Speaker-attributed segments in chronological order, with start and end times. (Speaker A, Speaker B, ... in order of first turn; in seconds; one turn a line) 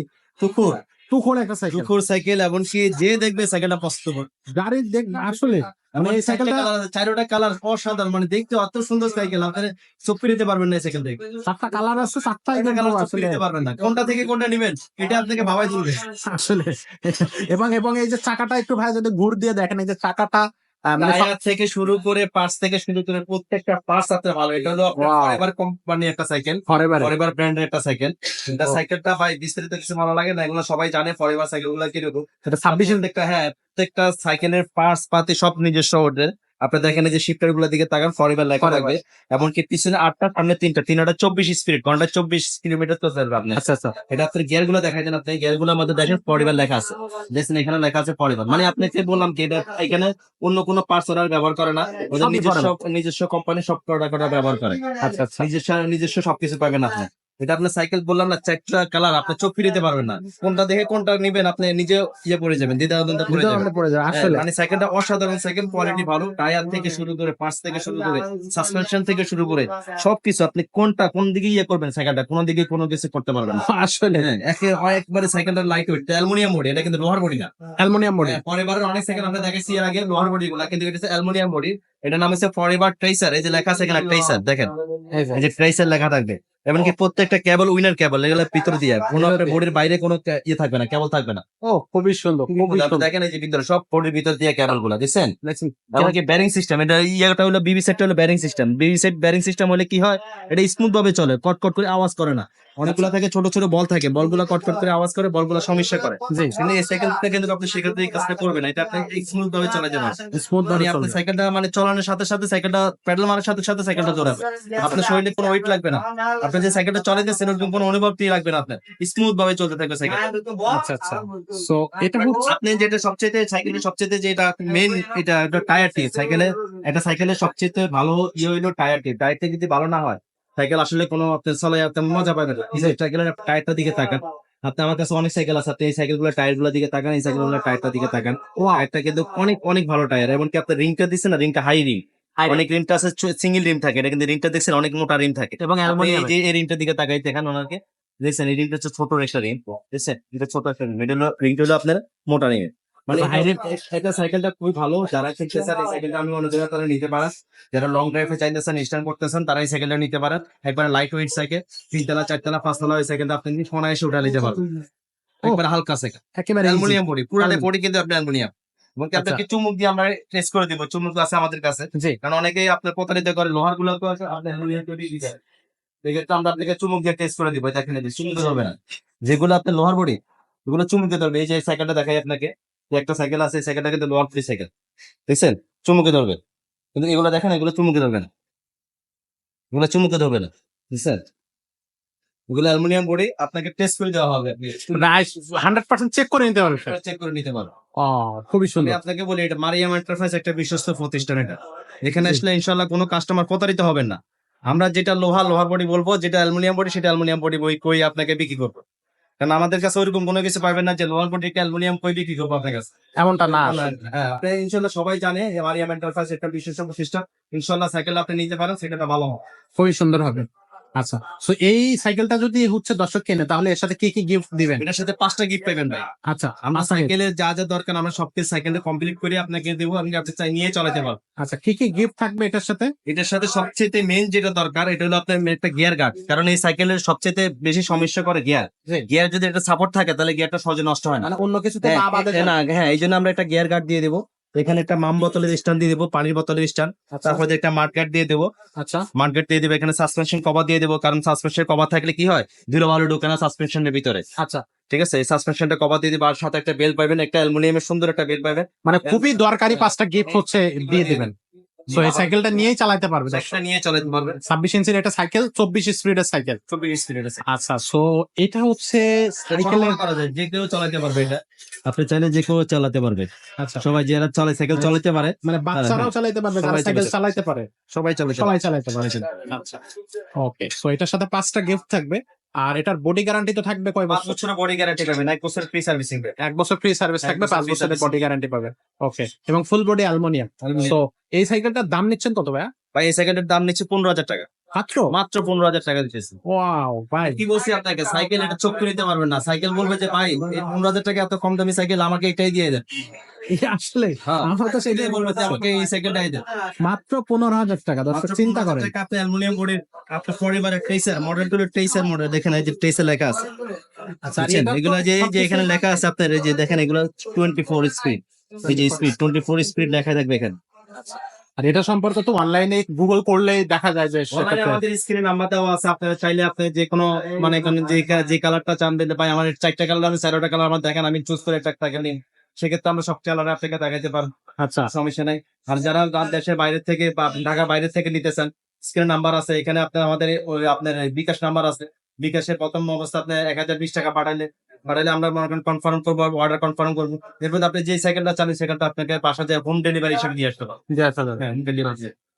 Speaker A: 0.4-0.8
Speaker B: 1.1-1.9
Speaker A: 1.7-4.3
Speaker B: 4.6-6.7
Speaker A: 5.9-11.4
Speaker B: 11.4-13.4
Speaker A: 12.5-16.0
Speaker B: 16.3-21.3
Speaker A: 21.0-77.5
Speaker B: 24.9-25.4
Speaker B: 26.7-27.1
Speaker B: 32.5-33.0
Speaker B: 38.6-38.9
Speaker B: 43.5-43.9
Speaker B: 52.2-52.7
Speaker B: 55.0-55.5
Speaker B: 63.3-64.4
Speaker B: 73.6-74.2
Speaker B: 77.8-78.4
Speaker A: 78.2-84.7
Speaker B: 85.1-85.4
Speaker A: 85.3-91.4
Speaker B: 89.1-89.6
Speaker B: 91.6-93.0
Speaker A: 92.5-95.3
Speaker B: 95.4-96.2
Speaker A: 95.9-120.5
Speaker B: 106.3-106.5
Speaker B: 110.3-111.2
Speaker B: 120.6-122.5
Speaker A: 122.3-164.7
Speaker B: 138.6-138.8
Speaker B: 145.6-146.3
Speaker B: 153.1-153.6
Speaker A: 165.4-175.4
Speaker B: 166.4-167.7
Speaker B: 169.1-169.4
Speaker A: 176.0-184.7
Speaker A: 185.3-186.4
Speaker A: 186.9-188.3
Speaker A: 189.7-191.2
Speaker A: 192.5-195.1
Speaker B: 194.9-196.9
Speaker A: 196.8-197.7
Speaker B: 198.0-199.0
Speaker A: 198.8-204.2
Speaker A: 204.7-208.8
Speaker A: 209.4-212.9
Speaker B: 213.2-213.8
Speaker A: 213.4-219.4
Speaker B: 219.8-220.5
Speaker B: 221.0-224.8
Speaker A: 224.8-226.1
Speaker B: 226.3-227.1
Speaker A: 226.6-231.2
Speaker B: 231.4-232.9
Speaker A: 233.1-241.3
Speaker B: 241.2-242.6
Speaker A: 241.8-248.5
Speaker B: 247.1-247.4
Speaker B: 248.8-249.0
Speaker A: 249.1-254.2
Speaker A: 254.9-261.3
Speaker B: 258.8-261.3
Speaker A: 261.9-262.6
Speaker B: 261.9-263.5
Speaker A: 263.3-264.4
Speaker B: 264.5-266.6
Speaker A: 266.7-267.4
Speaker B: 267.5-270.0
Speaker A: 269.5-273.3
Speaker B: 273.6-273.8
Speaker A: 273.8-277.1
Speaker B: 275.4-277.7
Speaker A: 277.9-278.5
Speaker B: 278.3-279.8
Speaker B: 280.4-284.4
Speaker A: 284.1-286.3
Speaker B: 286.4-292.7
Speaker A: 287.2-288.1
Speaker A: 290.6-290.9
Speaker A: 292.9-294.5
Speaker B: 294.7-295.1
Speaker A: 295.1-296.4
Speaker B: 296.5-297.4
Speaker A: 297.2-302.8
Speaker B: 303.5-305.6
Speaker A: 304.2-306.4
Speaker B: 306.8-308.9
Speaker A: 308.1-313.5
Speaker B: 314.2-315.7
Speaker A: 314.4-320.6
Speaker B: 318.6-319.0
Speaker B: 321.6-324.8
Speaker A: 324.3-334.3
Speaker B: 334.6-334.9
Speaker A: 334.9-350.8
Speaker B: 350.9-351.4
Speaker A: 351.4-352.1